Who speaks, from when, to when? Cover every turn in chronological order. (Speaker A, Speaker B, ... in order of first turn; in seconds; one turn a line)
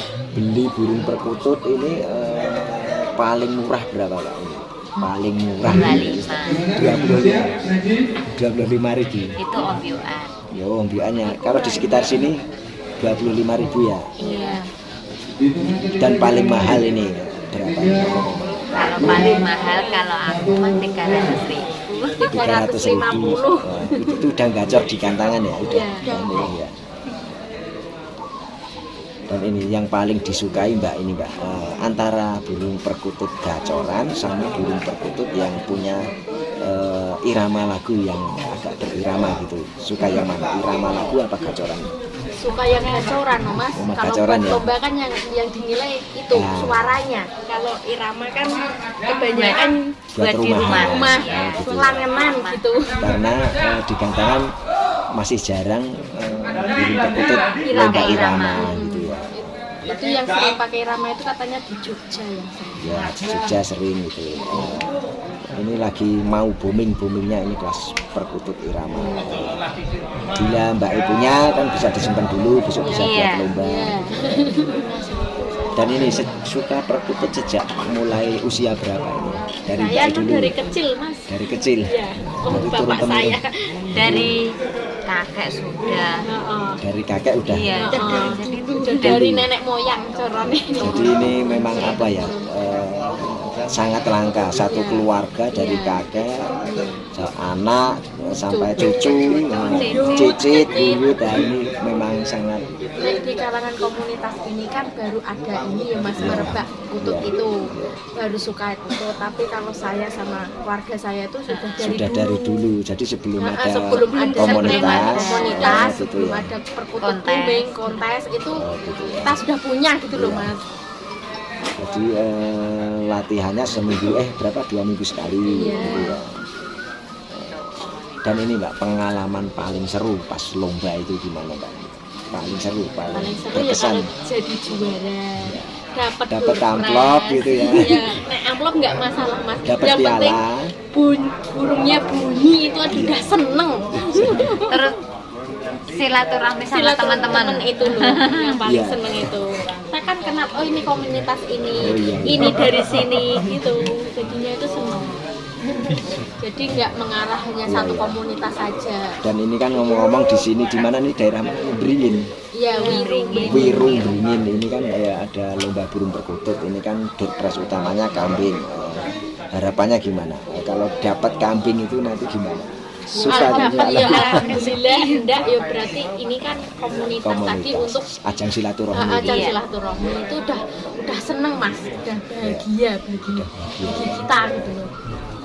Speaker A: 0.3-7.6
Speaker B: 5.7-6.7
Speaker A: 8.2-9.3
Speaker B: 9.4-10.3
Speaker A: 10.5-12.4
Speaker B: 11.2-12.3
Speaker A: 13.0-14.1
Speaker B: 14.2-14.6
Speaker C: 14.2-14.7
Speaker A: 15.9-19.4
Speaker B: 18.6-22.2
Speaker C: 19.6-20.1
Speaker C: 22.2-24.1
Speaker A: 22.3-26.7
Speaker C: 25.7-26.4
Speaker A: 29.3-36.0
Speaker C: 33.6-33.9
Speaker A: 36.6-41.9
Speaker C: 42.4-49.9
Speaker A: 43.8-44.6
Speaker A: 46.3-47.0
Speaker B: 49.3-52.6
Speaker A: 50.1-52.0
Speaker C: 50.6-53.0
Speaker A: 53.0-54.4
Speaker A: 55.1-59.5
Speaker C: 57.6-63.1
Speaker B: 57.7-58.9
Speaker A: 62.8-65.0
Speaker A: 65.5-69.6
Speaker C: 68.9-69.4
Speaker A: 70.3-73.9
Speaker C: 72.8-75.9
Speaker B: 73.0-73.5
Speaker A: 75.8-80.5
Speaker C: 79.7-81.2
Speaker A: 81.3-81.9
Speaker C: 81.8-83.5
Speaker A: 82.4-83.4
Speaker A: 83.9-84.3
Speaker B: 83.9-84.4
Speaker B: 85.1-86.1
Speaker C: 86.2-86.8
Speaker A: 86.8-88.1
Speaker B: 87.5-89.3
Speaker C: 87.8-92.4
Speaker A: 89.0-89.4
Speaker B: 90.0-91.8
Speaker A: 90.8-96.3
Speaker C: 94.6-96.0
Speaker C: 96.6-97.0
Speaker A: 97.2-102.6
Speaker C: 98.5-101.0
Speaker B: 99.2-100.4
Speaker C: 103.0-107.5
Speaker A: 106.2-108.0
Speaker C: 108.2-112.5
Speaker B: 111.5-111.9
Speaker A: 111.8-116.5
Speaker C: 113.4-118.6
Speaker B: 113.9-116.0
Speaker B: 117.0-118.0
Speaker A: 118.6-119.4
Speaker C: 119.2-120.6
Speaker A: 120.1-120.5
Speaker A: 121.8-126.3
Speaker B: 125.5-126.1
Speaker C: 125.5-126.2
Speaker B: 127.4-128.5
Speaker A: 128.2-134.1
Speaker C: 133.1-140.4
Speaker A: 135.4-135.7
Speaker A: 136.3-138.0
Speaker A: 139.6-140.7
Speaker C: 140.9-144.8
Speaker A: 141.8-142.3
Speaker A: 142.9-143.3
Speaker A: 144.1-144.5
Speaker B: 144.3-144.9
Speaker B: 145.9-148.6
Speaker C: 146.7-155.1
Speaker A: 148.7-149.3
Speaker A: 151.8-152.6
Speaker C: 156.4-159.1
Speaker A: 157.7-158.2
Speaker A: 159.2-162.3
Speaker C: 162.6-163.9
Speaker B: 162.8-164.2
Speaker A: 163.3-174.4
Speaker C: 173.2-178.0
Speaker B: 173.3-175.3
Speaker A: 177.2-179.4
Speaker C: 178.9-184.9
Speaker B: 179.2-179.5
Speaker A: 183.3-184.2